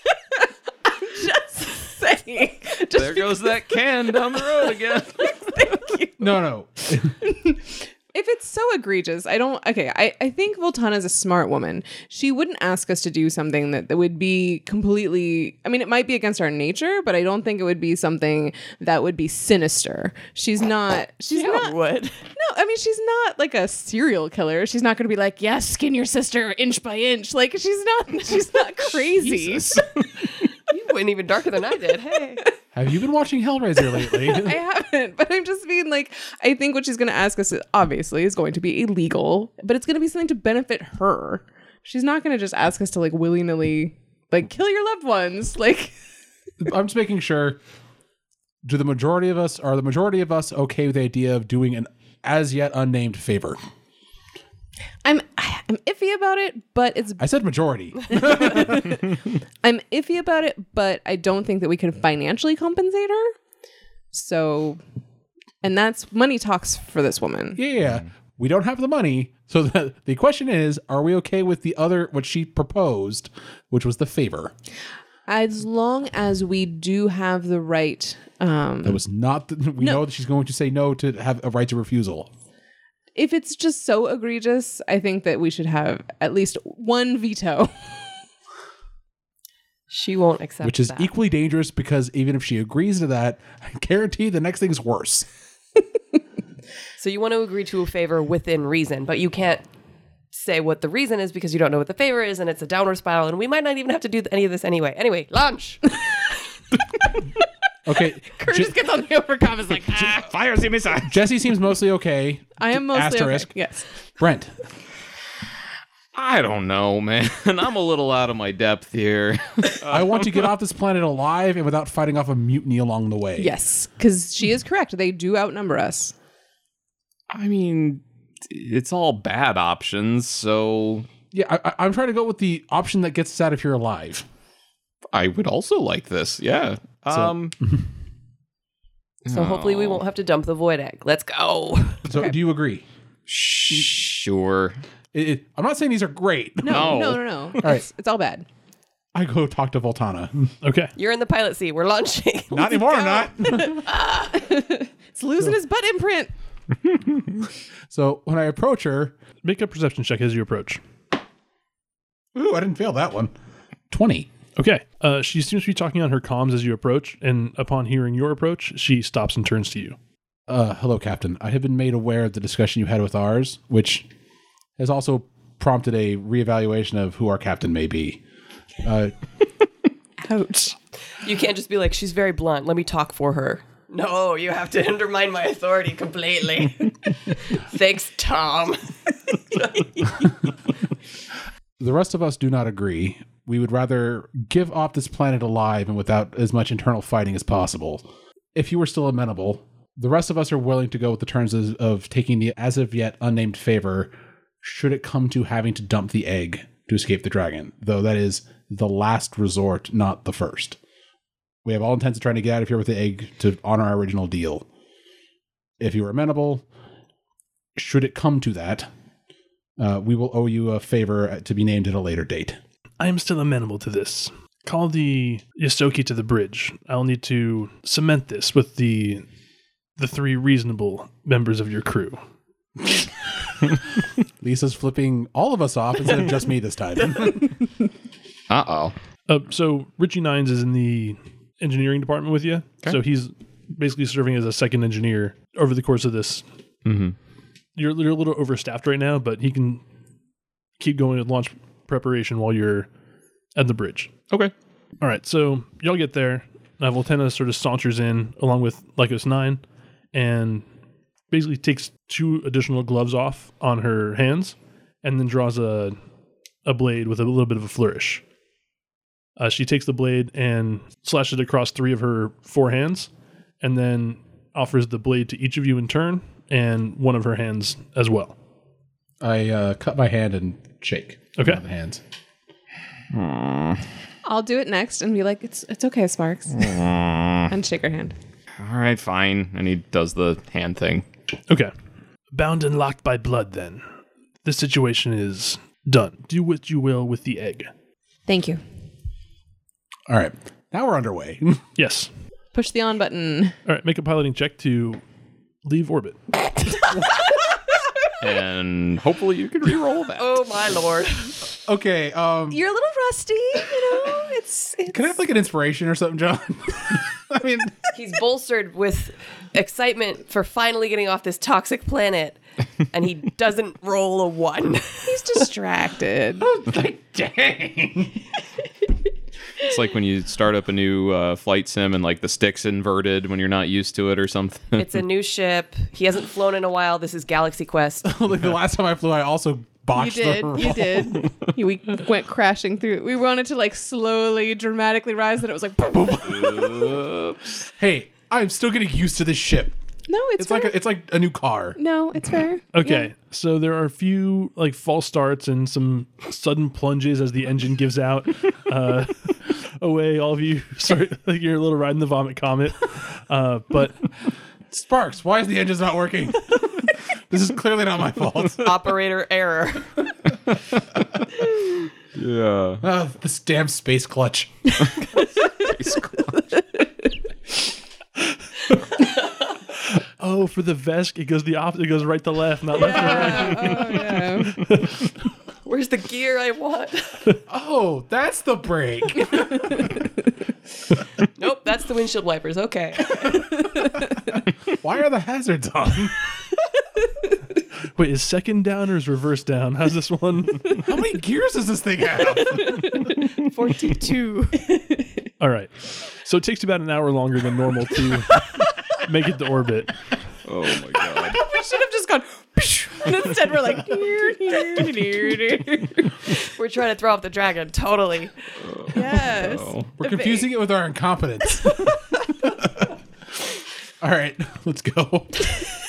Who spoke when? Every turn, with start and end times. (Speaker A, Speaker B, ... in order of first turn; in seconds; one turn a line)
Speaker A: 0.3-6.3
Speaker B: 2.9-5.5
Speaker C: 6.2-7.2
Speaker A: 7.2-21.7
Speaker D: 21.3-22.2
Speaker A: 22.4-29.8
Speaker B: 29.1-30.2
Speaker D: 30.7-32.4
Speaker C: 32.7-34.6
Speaker A: 34.1-45.9
Speaker C: 46.6-47.6
Speaker C: 48.6-53.6
Speaker A: 55.0-57.2
Speaker C: 57.2-59.0
Speaker A: 58.1-63.3
Speaker A: 64.1-64.8
Speaker A: 65.6-67.6
Speaker C: 67.5-74.5
Speaker A: 75.3-79.0
Speaker C: 78.8-82.3
Speaker A: 83.1-87.9
Speaker D: 89.9-91.1
Speaker C: 90.6-95.3
Speaker D: 97.0-99.6
Speaker D: 100.3-106.0
Speaker C: 107.8-108.8
Speaker A: 108.3-110.1
Speaker B: 109.9-111.2
Speaker C: 111.0-113.5
Speaker A: 112.6-113.9
Speaker C: 114.2-114.5
Speaker B: 116.1-120.4
Speaker C: 119.8-123.5
Speaker A: 123.4-126.1
Speaker B: 127.3-131.1
Speaker C: 131.3-134.2
Speaker B: 135.1-137.5
Speaker C: 137.1-137.8
Speaker B: 139.2-140.0
Speaker D: 139.3-142.1
Speaker C: 142.0-142.8
Speaker B: 143.3-144.8
Speaker C: 145.1-147.0
Speaker A: 146.6-148.4
Speaker B: 146.7-147.2
Speaker C: 147.6-147.8
Speaker C: 149.1-150.5
Speaker E: 150.6-150.9
Speaker D: 150.9-152.8
Speaker C: 152.5-153.8
Speaker A: 152.7-156.3
Speaker C: 157.9-159.2
Speaker E: 159.4-160.8
Speaker C: 162.3-163.3
Speaker C: 163.9-164.3
Speaker E: 164.6-170.0
Speaker C: 170.5-174.1
Speaker C: 174.8-178.2
Speaker C: 178.8-179.1
Speaker A: 180.2-180.7
Speaker D: 181.2-190.4
Speaker C: 191.8-210.8
Speaker C: 211.6-214.7
Speaker C: 215.8-216.6
Speaker C: 217.8-218.9
Speaker C: 219.8-222.6
Speaker E: 223.0-229.2
Speaker E: 230.0-232.2
Speaker C: 234.4-237.6
Speaker B: 238.5-238.9
Speaker E: 239.3-246.4
Speaker B: 246.8-247.2
Speaker E: 247.7-249.8
Speaker E: 250.8-252.9
Speaker E: 253.5-254.1
Speaker E: 255.0-259.6
Speaker E: 260.1-260.6
Speaker E: 261.3-266.0
Speaker E: 266.6-268.2
Speaker E: 269.4-273.1
Speaker E: 273.6-278.3
Speaker C: 279.2-282.0
Speaker B: 283.1-283.8
Speaker A: 284.2-286.8
Speaker B: 286.5-287.5
Speaker A: 287.5-288.1
Speaker B: 288.6-291.1
Speaker E: 292.3-293.8
Speaker E: 294.4-297.7
Speaker A: 298.3-298.6
Speaker C: 300.1-301.6
Speaker E: 301.8-302.1
Speaker A: 302.5-303.6
Speaker E: 303.6-305.0
Speaker E: 305.6-306.8
Speaker B: 308.2-310.3
Speaker D: 310.2-311.4
Speaker C: 311.6-312.6
Speaker A: 312.5-315.1
Speaker C: 314.9-317.8
Speaker D: 317.9-322.4
Speaker D: 322.9-325.4
Speaker A: 325.0-326.5
Speaker C: 326.4-328.3
Speaker B: 329.6-335.0
Speaker D: 334.8-338.1
Speaker C: 338.0-341.3
Speaker A: 339.9-346.6
Speaker C: 345.9-346.9
Speaker B: 346.3-347.4
Speaker C: 347.8-349.7
Speaker A: 350.1-350.8
Speaker C: 350.4-351.8
Speaker A: 351.8-353.1
Speaker E: 352.7-364.0
Speaker C: 364.7-368.7
Speaker D: 368.6-370.0
Speaker B: 370.5-371.4
Speaker B: 372.1-372.8
Speaker C: 372.8-374.9
Speaker A: 374.9-375.8
Speaker B: 375.6-376.4
Speaker A: 376.4-376.8
Speaker E: 379.9-385.0
Speaker A: 382.7-384.6
Speaker D: 382.8-383.7
Speaker D: 385.6-387.2
Speaker C: 387.5-389.9
Speaker D: 391.4-393.3
Speaker C: 393.1-396.1
Speaker E: 397.9-400.9
Speaker C: 400.8-403.0
Speaker A: 402.4-403.2
Speaker A: 403.7-405.1
Speaker E: 405.4-410.0
Speaker B: 410.4-411.4
Speaker A: 411.2-416.4
Speaker D: 416.5-418.3
Speaker B: 418.6-419.9
Speaker A: 418.9-420.5
Speaker C: 420.0-422.9
Speaker C: 424.0-425.5